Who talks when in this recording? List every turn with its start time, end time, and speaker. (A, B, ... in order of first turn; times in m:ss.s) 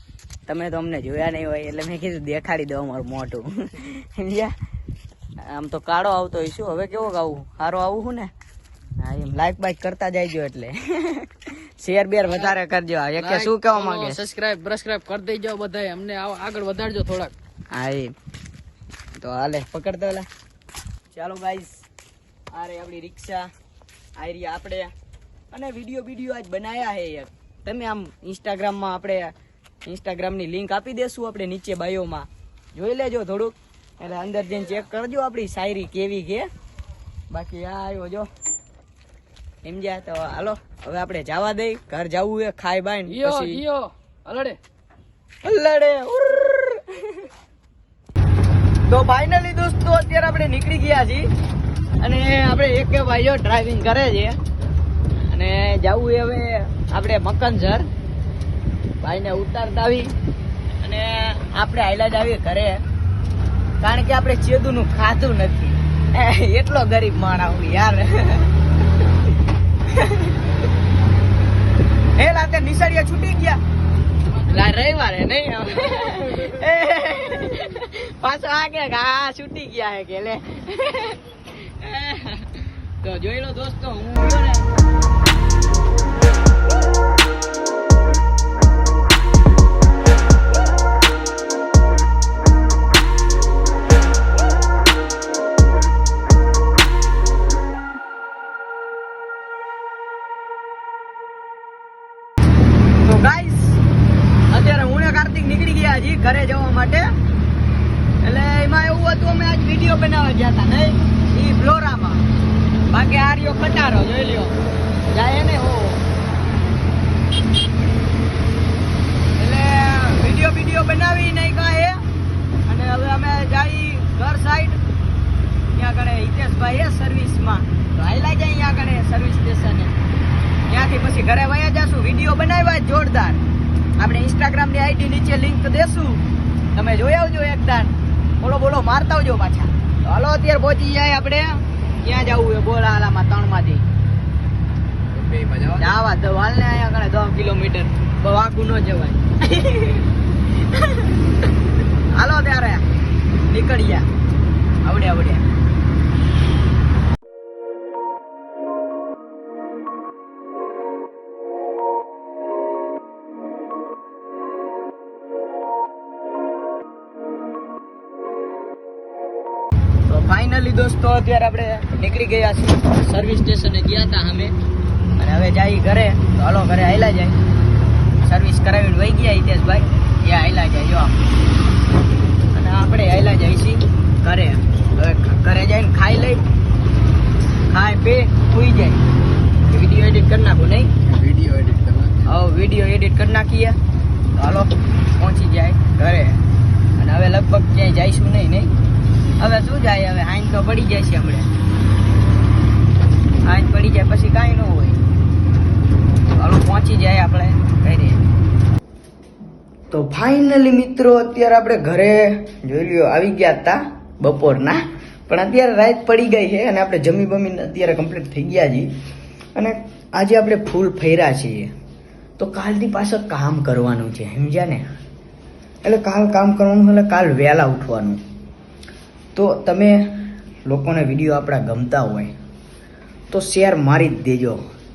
0:00.5-0:04.5 A
0:05.4-0:08.3 A
0:09.0-0:14.2 A
0:13.2-0:17.3 B
0:17.7-0:18.1 A
0:19.2-0:20.3 A
0:21.1-0:21.8 A
0:22.5-0:23.5 A
0:24.2-0:24.9 A
0:25.5-0:29.3 A
0:29.8-0:36.5 A
0:37.3-0:38.3 A
0:39.6-0:43.6 A
0:43.1-0:44.6 B
0:45.4-0:47.3 A
0:48.9-0:51.3 A
0:52.0-0:54.4 A
0:55.3-0:57.9 A
0:59.0-1:00.1 A
1:00.8-1:02.8 A
1:03.8-1:08.5 A
1:09.9-1:10.4 A
1:12.1-1:13.6 A
1:14.3-1:24.7 A
1:43.0-1:43.8 A
1:44.5-1:47.1 A
1:48.2-1:52.2 A
1:52.9-1:54.5 A
1:55.1-1:56.0 A
1:59.4-2:02.0 A
2:02.6-2:04.8 A
2:05.7-2:09.9 A
2:10.7-2:13.4 A
2:14.0-2:16.2 A
2:16.7-2:23.8 A
2:25.1-2:25.9 B
2:25.8-2:31.4 A
2:32.1-2:32.8 A
2:33.4-2:34.1 A
2:34.8-2:35.5 A
2:50.0-2:54.5 A
2:55.2-2:57.4 A
2:58.2-3:01.2 A
3:02.5-3:06.4 A
3:07.7-3:09.0 A
3:09.6-3:10.9 A
3:11.2-3:12.2 B
3:12.2-3:13.8 A
3:14.3-3:16.4 A
3:17.0-3:18.7 A
3:19.4-3:21.5 A
3:23.4-3:25.0 A
3:26.4-3:28.2 A
3:29.9-3:38.9 A
3:39.5-3:41.7 A
3:42.4-3:44.8 A
3:45.8-3:48.2 A
3:49.3-3:52.3 A
3:53.3-3:54.6 A